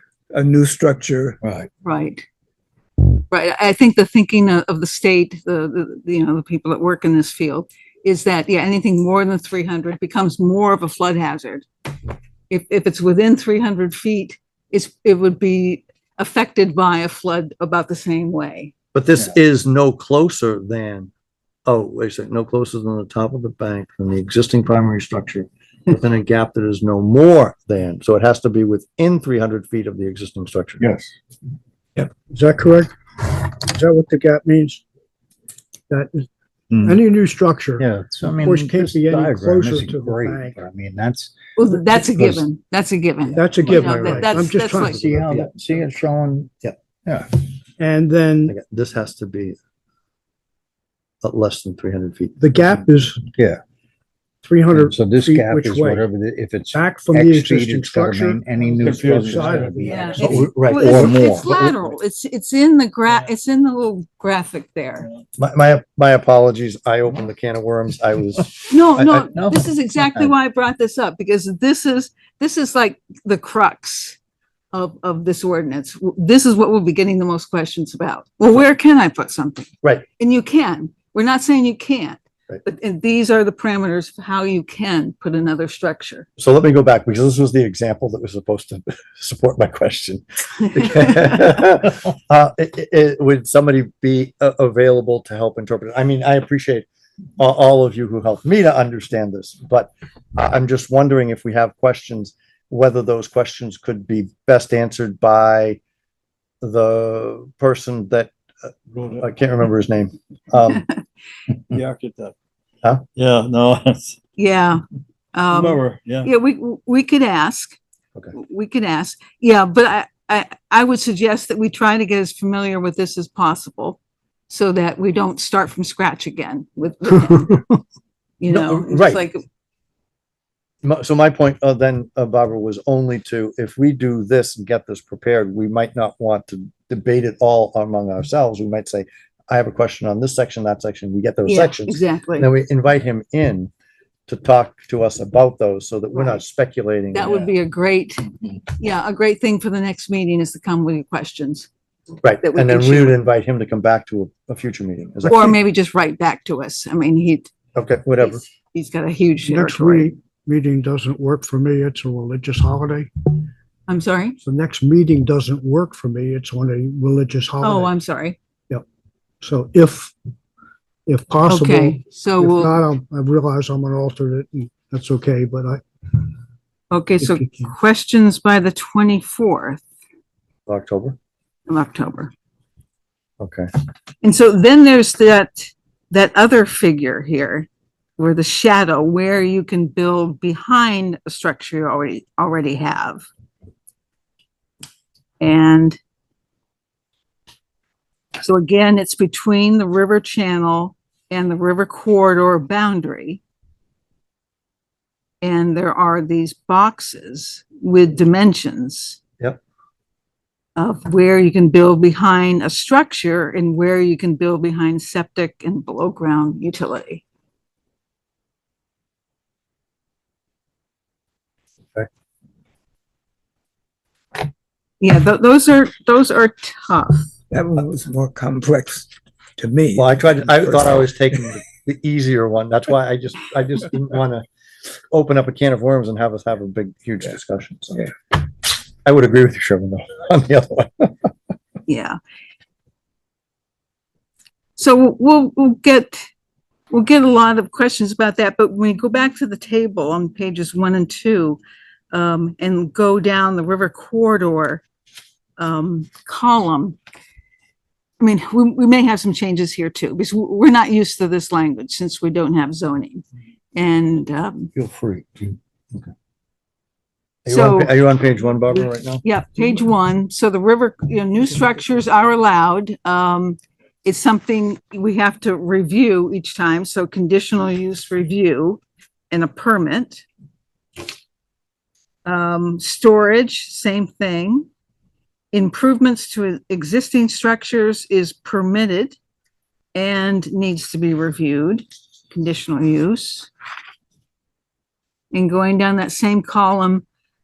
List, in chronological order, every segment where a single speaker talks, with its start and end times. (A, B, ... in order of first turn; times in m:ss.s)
0:00.3-0:01.4 A
0:01.8-0:02.2 B
0:03.3-0:11.6 B
0:12.5-0:18.7 B
0:18.9-0:21.1 C
0:21.6-0:30.9 C
0:32.0-0:34.8 D
0:35.9-0:36.3 D
0:36.7-0:37.0 E
0:36.8-0:37.8 D
0:37.8-0:41.3 E
0:38.4-0:40.6 D
0:41.6-0:45.0 B
0:42.1-0:42.4 E
0:43.3-0:45.3 D
0:43.6-0:45.5 C
0:44.7-0:46.5 E
0:47.8-0:48.6 D
0:48.5-0:49.6 C
0:51.2-0:52.9 C
0:52.4-0:53.3 D
0:53.3-0:53.6 E
0:54.4-0:56.1 D
0:54.7-1:01.9 E
0:56.7-1:00.1 D
0:58.8-0:59.8 F
0:59.8-1:05.1 B
1:00.1-1:01.5 C
1:05.4-1:09.3 C
1:08.7-1:14.2 B
1:09.3-1:10.3 E
1:14.7-1:26.2 B
1:26.4-1:36.8 C
1:37.4-1:45.8 C
1:46.6-1:50.8 C
1:48.9-1:49.3 F
1:51.7-1:52.3 F
1:53.1-1:54.2 F
1:54.4-1:54.8 B
1:55.3-1:57.8 B
1:55.5-1:56.3 F
1:58.3-2:07.6 B
2:08.4-2:09.4 B
2:08.5-2:09.2 C
2:10.8-2:23.7 C
2:21.5-2:22.5 B
2:24.3-2:27.5 C
2:26.1-2:26.4 B
2:27.1-2:31.7 B
2:32.2-2:35.5 C
2:32.4-2:33.2 B
2:35.2-2:37.5 B
2:37.7-2:38.4 C
2:38.2-2:40.1 B
2:39.4-2:43.1 D
2:43.9-2:44.4 B
2:44.4-2:47.9 D
2:47.6-2:48.4 B
2:49.4-2:50.1 D
2:51.0-2:56.2 D
2:51.4-2:52.7 B
2:56.9-2:59.8 B
2:57.2-2:57.7 D
3:00.7-3:01.2 C
3:01.7-3:02.3 B
3:03.4-3:03.7 C
3:04.2-3:13.2 B
3:15.4-3:16.0 B
3:18.4-3:23.4 B
3:25.4-3:29.2 B
3:30.8-3:37.2 B
3:45.0-3:47.2 B
3:47.5-3:51.3 A
3:50.0-3:54.4 C
3:55.1-4:01.3 C
4:01.9-4:02.2 B
4:04.8-4:06.2 B
4:06.9-4:11.6 B
4:12.1-4:14.8 B
4:15.6-4:17.0 B
4:18.2-4:24.7 B
4:24.7-4:26.1 C
4:27.4-4:29.2 C
4:27.5-4:28.0 B
4:28.7-4:40.2 B
4:42.2-4:44.7 B
4:45.5-4:49.2 B
4:49.9-4:53.5 B
4:55.3-4:57.0 B